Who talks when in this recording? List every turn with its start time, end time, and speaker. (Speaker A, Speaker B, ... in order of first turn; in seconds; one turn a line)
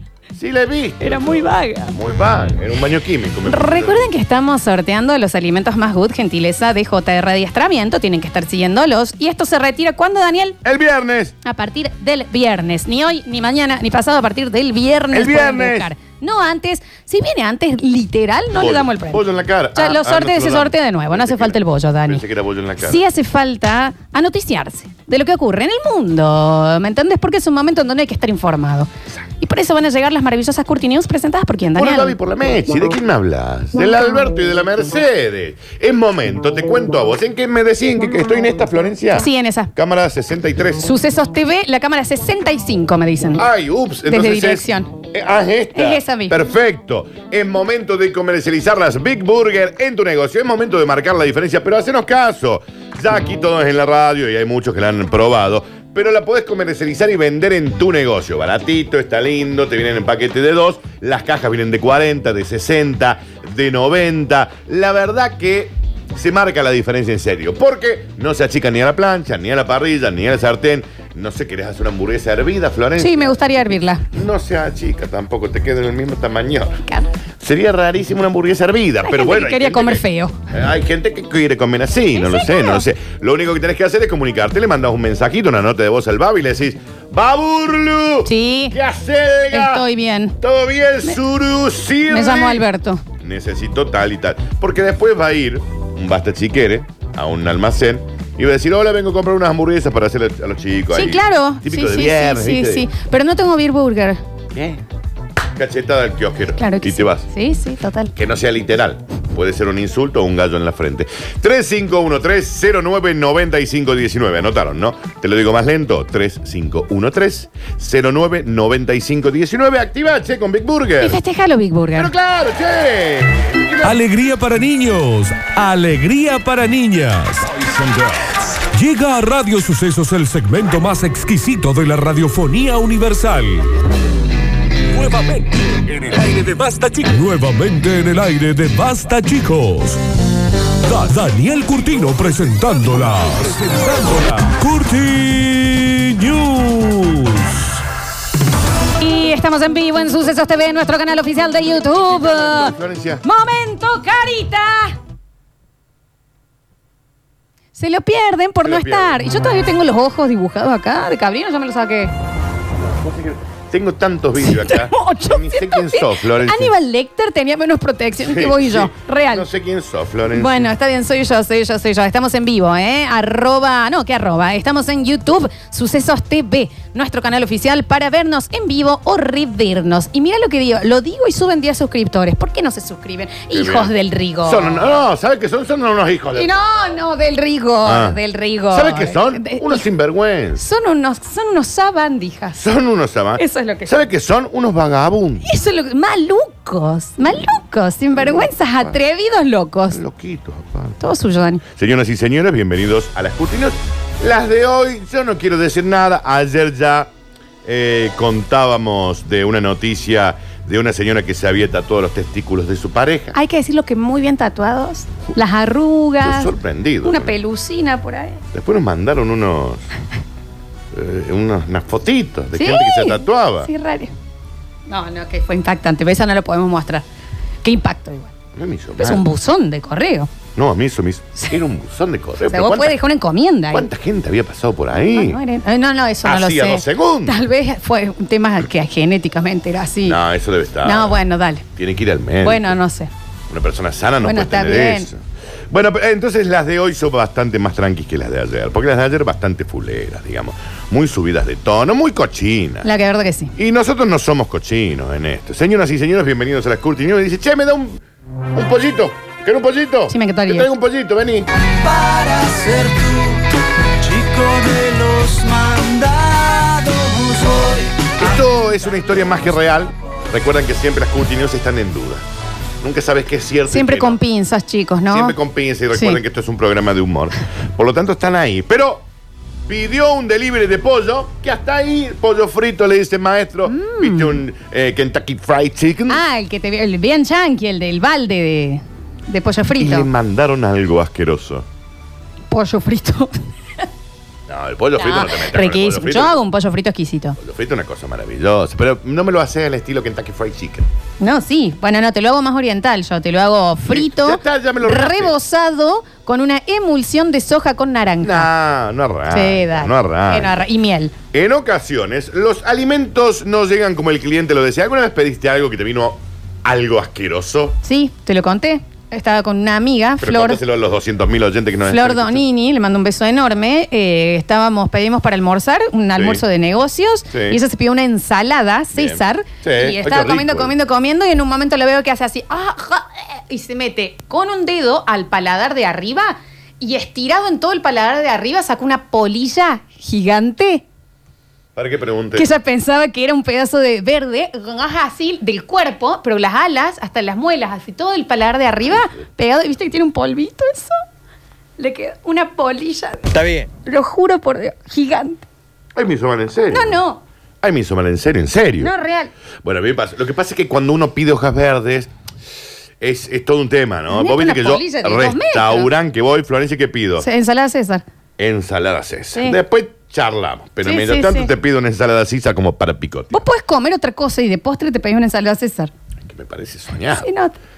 Speaker A: 0.3-4.1
Speaker B: 1.0-1.9
Speaker B: 3.5-10.6
Speaker A: 10.6-11.4
Speaker B: 11.4-19.2
Speaker A: 15.1-15.9
Speaker A: 18.5-23.0
Speaker B: 19.8-22.2
Speaker B: 22.8-32.2
Speaker A: 31.8-40.8
Speaker B: 39.1-39.7
Speaker B: 40.8-43.5
Speaker A: 43.4-73.4
Speaker B: 44.1-45.0
Speaker B: 45.8-46.4
Speaker B: 73.0-74.1
Speaker A: 74.1-76.8
Speaker A: 77.4-89.9
Speaker B: 79.0-80.3
Speaker B: 82.2-82.8
Speaker B: 88.3-88.8
Speaker B: 89.5-90.4
Speaker A: 90.4-92.7
Speaker B: 92.1-93.0
Speaker A: 93.2-102.9
Speaker B: 100.9-104.2
Speaker A: 104.5-104.8
Speaker A: 105.6-107.3
Speaker B: 106.6-108.1
Speaker A: 108.2-121.2
Speaker B: 121.0-122.1
Speaker A: 122.0-124.0
Speaker C: 123.8-133.7
Speaker C: 134.9-140.0
Speaker C: 140.8-147.8
Speaker B: 149.0-155.0
Speaker A: 151.9-153.2
Speaker B: 157.8-162.1
Speaker A: 158.6-159.2
Speaker A: 162.8-166.7
Speaker B: 164.4-169.5
Speaker A: 168.2-170.7
Speaker B: 170.3-184.8
Speaker A: 183.5-183.9
Speaker A: 184.4-186.6
Speaker B: 186.3-189.8
Speaker A: 187.8-190.6
Speaker B: 190.6-192.7
Speaker A: 192.6-195.4
Speaker B: 193.4-193.9
Speaker B: 195.4-200.0
Speaker A: 198.2-199.0
Speaker A: 199.9-201.0
Speaker B: 201.0-201.6
Speaker A: 201.6-207.1
Speaker A: 207.7-213.3
Speaker B: 213.3-216.5
Speaker A: 216.2-217.4
Speaker B: 217.0-218.4
Speaker A: 218.5-219.8
Speaker A: 220.9-223.7
Speaker B: 222.6-224.1
Speaker B: 224.9-227.1
Speaker B: 227.6-228.3
Speaker A: 228.6-229.2
Speaker B: 229.0-230.3
Speaker A: 230.6-233.0
Speaker B: 232.5-233.9
Speaker A: 233.7-235.4
Speaker B: 235.1-240.2
Speaker A: 236.2-237.4
Speaker A: 240.1-241.2
Speaker B: 240.8-241.7
Speaker A: 241.8-242.8
Speaker B: 242.4-243.1
Speaker A: 243.5-252.9
Speaker B: 244.2-245.1
Speaker B: 252.8-253.5
Speaker A: 253.6-258.0
Speaker A: 258.5-261.5
Speaker B: 260.1-260.7
Speaker D: 261.6-268.5
Speaker A: 268.2-272.2
Speaker D: 269.0-269.3
Speaker A: 272.8-274.2
Speaker B: 273.7-275.4
Speaker A: 275.1-279.1
Speaker B: 275.9-276.2
Speaker A: 279.7-286.2
Speaker B: 283.7-284.4
Speaker B: 286.1-290.1
Speaker A: 289.8-291.7
Speaker B: 292.5-293.4
Speaker A: 294.5-296.4
Speaker B: 295.0-297.4
Speaker A: 297.4-300.9
Speaker B: 301.2-308.5
Speaker A: 303.9-305.3
Speaker A: 308.2-310.6
Speaker B: 309.3-311.1
Speaker A: 311.3-317.8
Speaker B: 317.8-320.6
Speaker A: 320.2-322.4
Speaker B: 321.9-340.8
Speaker A: 326.2-326.4
Speaker A: 327.3-327.6
Speaker A: 328.9-330.7
Speaker A: 341.8-342.5
Speaker B: 342.4-350.9
Speaker B: 351.8-355.5
Speaker A: 355.9-357.0
Speaker B: 356.7-357.2
Speaker A: 357.6-358.9
Speaker B: 358.8-359.3
Speaker A: 359.6-362.1
Speaker A: 363.0-367.3
Speaker B: 364.1-365.9
Speaker B: 367.2-368.0
Speaker A: 368.4-373.4
Speaker B: 370.8-371.5
Speaker B: 373.3-375.9
Speaker A: 376.2-377.3
Speaker B: 377.1-377.6